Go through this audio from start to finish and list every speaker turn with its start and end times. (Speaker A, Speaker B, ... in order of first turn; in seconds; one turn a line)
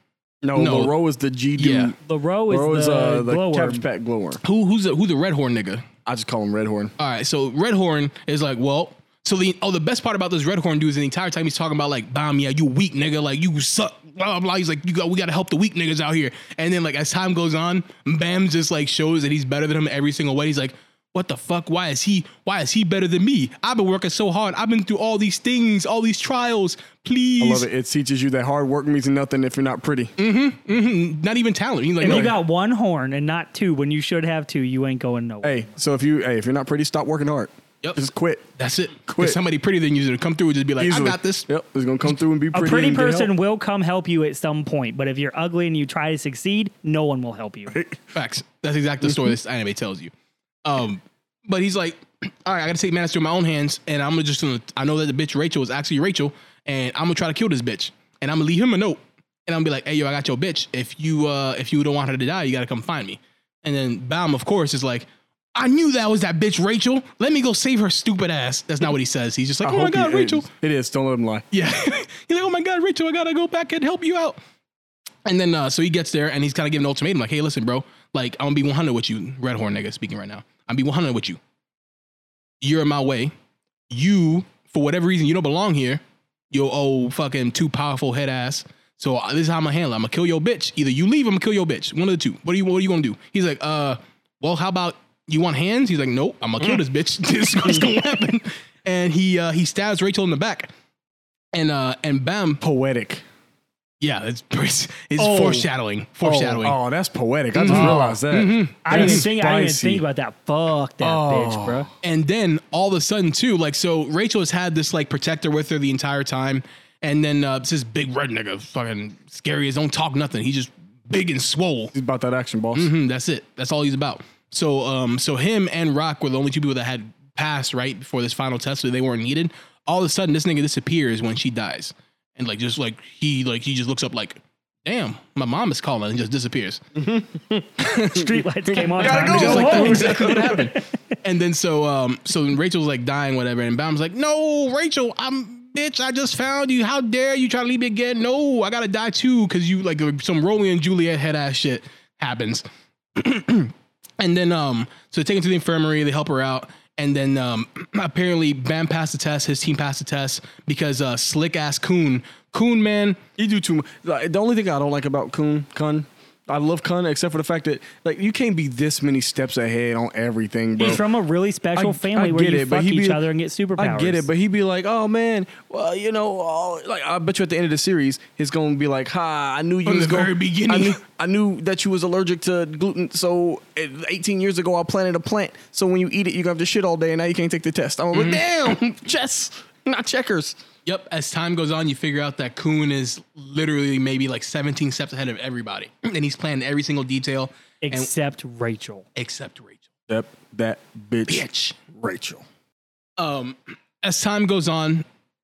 Speaker A: 0.4-2.0
Speaker B: 0.6-0.9
Speaker B: 1.6-1.9
Speaker C: 2.0-3.8
Speaker A: 2.5-4.4
Speaker B: 4.4-5.8
Speaker A: 6.1-6.9
Speaker B: 7.0-27.7
Speaker A: 27.4-30.1
Speaker B: 30.2-32.4
Speaker C: 32.0-35.7
Speaker A: 32.0-32.3
Speaker A: 35.4-38.5
Speaker B: 38.6-41.5
Speaker A: 39.1-39.4
Speaker A: 40.8-43.3
Speaker C: 42.5-47.8
Speaker A: 47.7-48.0
Speaker B: 48.1-50.1
Speaker A: 49.0-49.3
Speaker B: 50.6-70.5
Speaker A: 69.6-71.5
Speaker B: 71.5-74.4
Speaker B: 75.3-81.4
Speaker B: 82.6-83.3
Speaker B: 83.9-100.7
Speaker B: 101.5-102.6
Speaker A: 102.6-103.2
Speaker B: 104.0-106.8
Speaker C: 105.2-105.7
Speaker A: 106.2-110.0
Speaker B: 107.5-109.3
Speaker C: 107.7-108.0
Speaker C: 108.9-111.9
Speaker A: 111.0-111.9
Speaker B: 112.0-121.9
Speaker A: 121.9-122.9
Speaker B: 122.7-136.8
Speaker A: 137.0-137.6
Speaker B: 137.8-138.2
Speaker C: 138.0-140.9
Speaker A: 138.7-140.7
Speaker B: 138.8-152.6
Speaker B: 153.2-163.2
Speaker A: 163.4-171.0
Speaker C: 170.8-174.3
Speaker A: 171.8-173.2
Speaker A: 173.8-190.6
Speaker B: 179.9-181.0
Speaker B: 188.1-188.8
Speaker B: 190.9-198.1
Speaker C: 197.8-199.1
Speaker B: 199.2-199.8
Speaker A: 200.1-202.4
Speaker B: 201.3-201.8
Speaker B: 203.2-205.1